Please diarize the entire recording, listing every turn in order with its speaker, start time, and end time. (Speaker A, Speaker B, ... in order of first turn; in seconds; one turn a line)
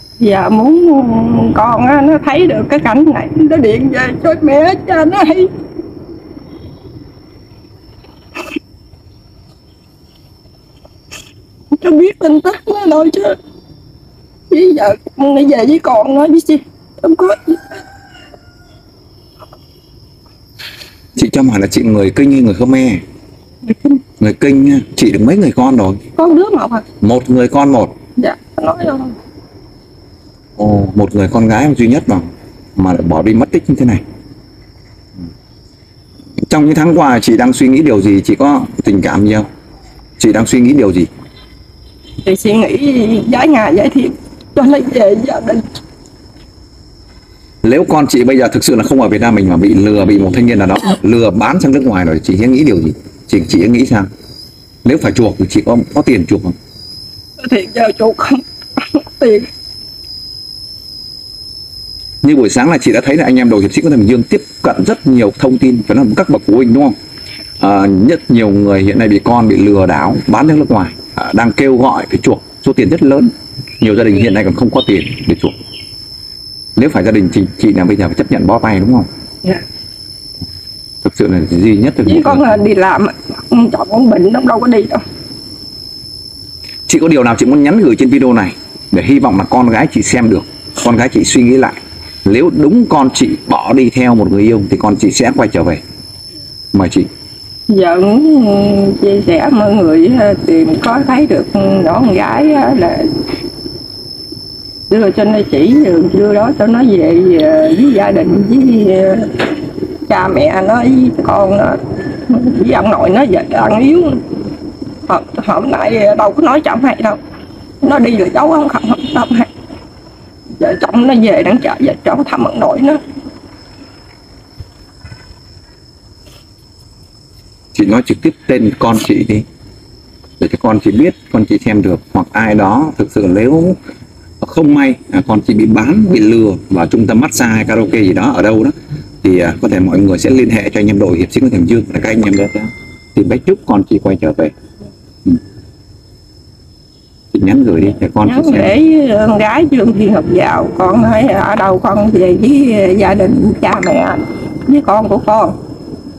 Speaker A: 0.2-5.5
Speaker A: 11.7-13.4
Speaker A: 14.5-17.8
Speaker B: 21.1-23.0
Speaker B: 24.2-26.0
Speaker A: 26.2-26.9
Speaker B: 27.0-27.9
Speaker A: 28.2-29.2
Speaker B: 30.6-34.0
Speaker B: 36.5-39.5
Speaker B: 40.2-41.1
Speaker A: 42.2-45.7
Speaker B: 47.6-54.1
Speaker B: 54.9-56.6
Speaker A: 57.4-59.5
Speaker B: 62.2-67.0
Speaker B: 67.6-75.5
Speaker B: 76.8-79.1
Speaker B: 81.0-82.6
Speaker A: 82.0-85.0
Speaker B: 86.9-95.8
Speaker B: 96.7-97.1
Speaker A: 97.7-103.1
Speaker A: 104.9-109.5
Speaker A: 110.1-114.2
Speaker A: 115.1-117.2
Speaker A: 117.8-119.5
Speaker A: 120.6-123.0
Speaker B: 127.7-129.4
Speaker B: 130.4-133.8
Speaker B: 134.4-144.5
Speaker B: 147.3-148.7
Speaker A: 148.2-155.6